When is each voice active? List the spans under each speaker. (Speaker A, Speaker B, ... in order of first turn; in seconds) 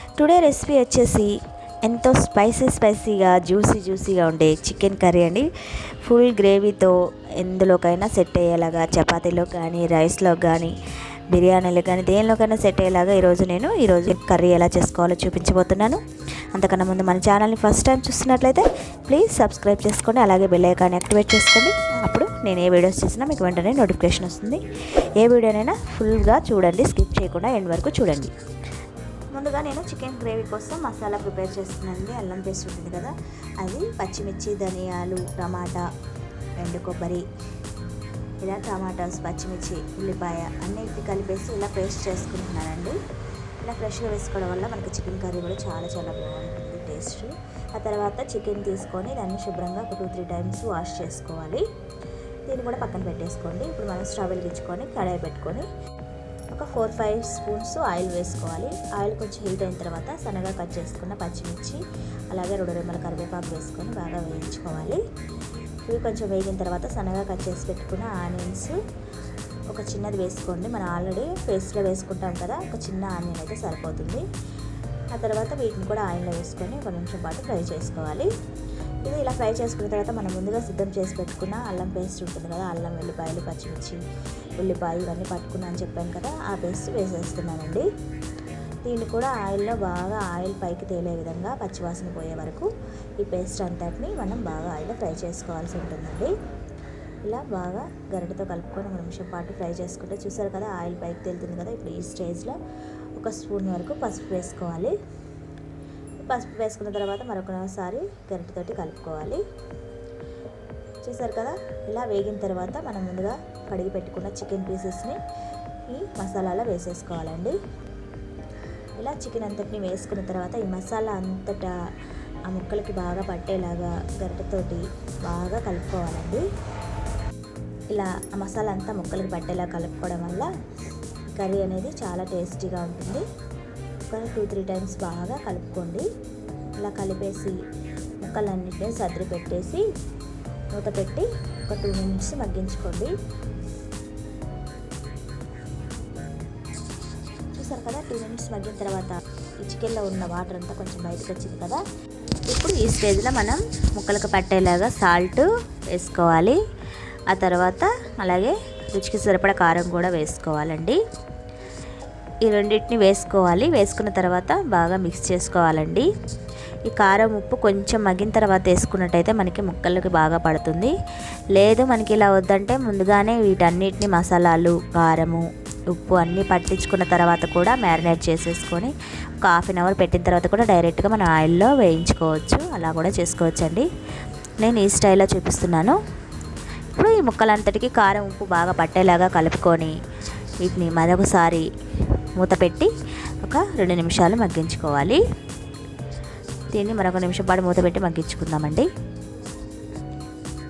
Speaker A: 0.2-5.5, 6.0-10.8, 11.3-16.0, 16.5-28.3, 29.3-35.8, 36.6-37.3, 38.4-43.0, 43.6-51.6, 52.5-55.7, 56.5-65.0, 65.8-68.8, 69.7-74.2, 75.1-78.3, 79.0-84.0, 84.6-87.9, 88.8-96.3, 97.2-102.6, 103.2-104.9, 106.2-109.4, 111.0-115.2, 115.9-117.6, 119.0-121.8, 122.5-126.4, 127.9-130.5, 131.3-133.2, 134.1-136.1, 136.8-137.6, 138.2-139.8, 140.7-143.1, 147.6-151.8, 152.4-156.6, 157.3-161.0, 162.4-166.1, 166.8-170.9, 171.5-183.9, 184.6-186.0, 186.9-190.0, 190.6-191.7, 192.3-195.2, 196.7-198.9